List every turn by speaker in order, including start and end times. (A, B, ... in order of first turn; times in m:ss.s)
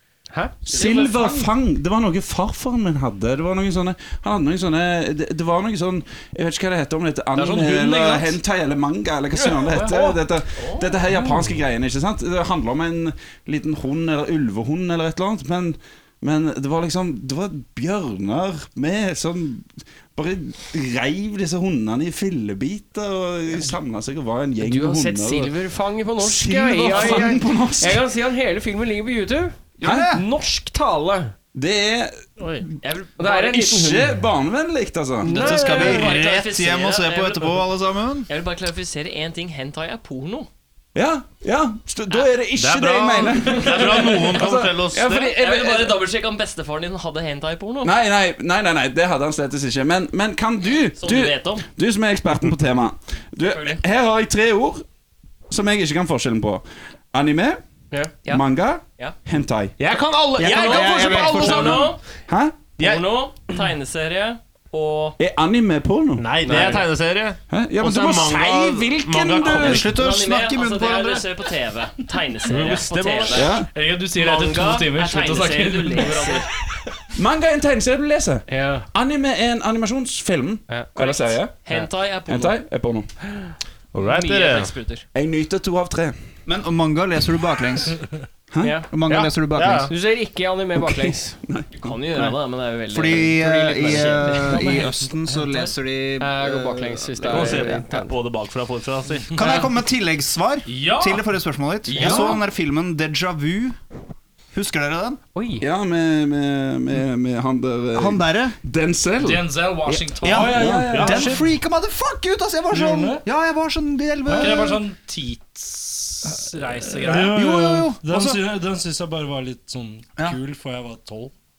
0:00.3-0:00.7 A
0:00.6-0:25.6 B
0:00.7-0:01.5 C
0:07.3-0:08.4 C
0:09.5-0:10.1 C
0:11.1-0:11.4 A
0:24.6-0:31.3 A
0:26.2-0:28.0 B
0:29.8-0:30.2 D
0:29.8-0:30.1 B
0:31.5-0:32.2 B
0:32.4-0:32.6 E
0:32.8-0:33.5 F
0:33.2-0:34.1 A
0:33.5-0:35.8 B
0:35.2-0:36.1 A
0:35.3-0:38.3 D
0:35.5-0:37.7 F
0:38.3-0:40.5 F
0:40.9-0:44.8 B
0:42.5-0:45.4 E
0:44.4-0:46.0 A
0:45.3-0:47.9 F
0:47.8-0:54.8 B
0:50.9-0:51.6 F
0:53.4-0:53.8 F
0:55.5-0:57.6 B
0:58.3-0:59.8 B
0:59.8-1:01.9 E
1:00.4-1:01.9 D
1:00.5-1:02.0 F
1:02.3-1:02.6 B
1:02.8-1:05.2 F
1:02.8-1:03.2 E
1:05.2-1:06.8 B
1:06.2-1:09.9 E
1:06.4-1:06.9 A
1:07.5-1:09.8 B
1:09.3-1:11.3 D
1:09.7-1:13.6 F
1:12.4-1:13.5 E
1:13.3-1:13.7 B
1:13.7-1:16.5 C
1:14.1-1:16.5 F
1:17.2-1:21.6 B
1:18.5-1:18.9 A
1:20.9-1:22.6 F
1:22.3-1:23.1 B
1:23.9-1:24.7 E
1:24.0-1:25.0 F
1:25.1-1:26.2 B
1:26.4-1:28.0 D
1:28.5-1:28.8 B
1:28.6-1:28.9 A
1:28.9-1:29.9 D
1:29.1-1:29.9 E
1:29.9-1:31.4 A
1:31.4-1:31.8 B
1:31.8-1:35.0 F
1:32.1-1:37.9 D
1:33.4-1:34.9 A
1:36.2-1:38.2 A
1:37.3-1:39.6 E
1:39.3-1:43.8 D
1:40.6-1:41.2 C
1:41.9-1:42.3 A
1:41.9-1:42.3 B
1:41.9-1:42.3 E
1:44.5-1:45.2 D
1:45.3-1:45.6 A
1:45.6-1:51.3 B
1:47.9-1:48.6 D
1:49.2-1:51.4 C
1:50.2-1:54.8 D
1:50.3-1:51.4 G
1:52.7-1:53.1 G
1:54.3-1:57.4 C
1:57.0-1:58.4 D
1:57.0-2:01.3 G